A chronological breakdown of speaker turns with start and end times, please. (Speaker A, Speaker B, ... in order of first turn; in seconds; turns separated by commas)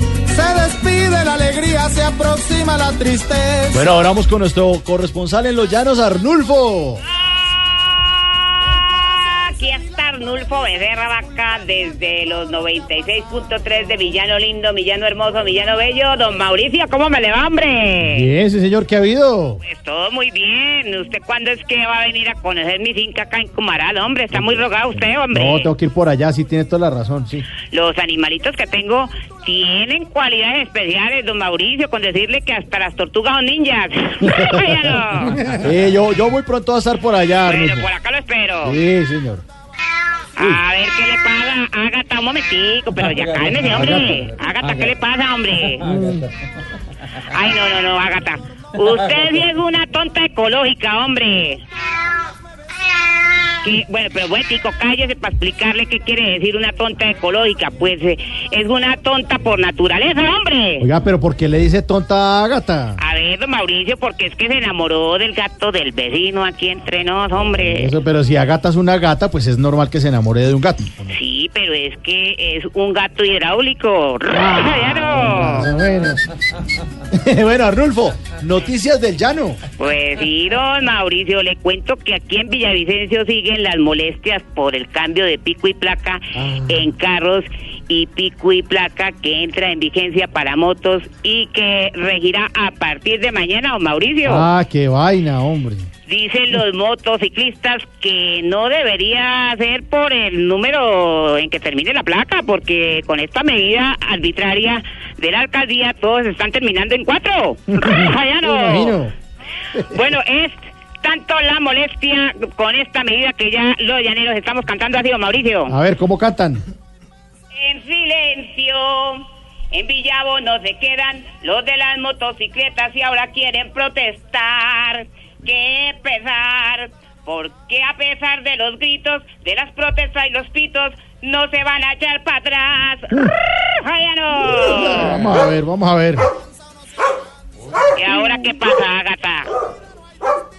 Speaker A: 0.3-3.8, Speaker B: 3.7-7.0, Speaker C: 8.1-18.3, Speaker B: 18.0-19.6, Speaker C: 19.6-25.7, Speaker B: 25.3-27.4, Speaker C: 27.7-35.4, Speaker B: 34.2-34.6, Speaker B: 35.4-37.9, Speaker C: 37.4-38.8, Speaker B: 38.6-39.4, Speaker C: 40.4-45.9, Speaker B: 43.7-44.2, Speaker B: 45.8-46.2, Speaker C: 47.1-51.6, Speaker C: 53.6-60.9, Speaker B: 60.8-63.0, Speaker C: 63.0-68.0, Speaker B: 67.6-71.2, Speaker C: 71.1-75.7, Speaker B: 74.4-76.3, Speaker B: 77.1-79.6, Speaker C: 79.8-94.5, Speaker B: 86.3-86.9, Speaker B: 94.2-95.9, Speaker C: 96.0-109.0, Speaker B: 107.7-109.1, Speaker C: 109.8-115.8, Speaker B: 115.7-116.6, Speaker C: 117.5-135.3, Speaker B: 134.6-136.3, Speaker C: 137.9-139.5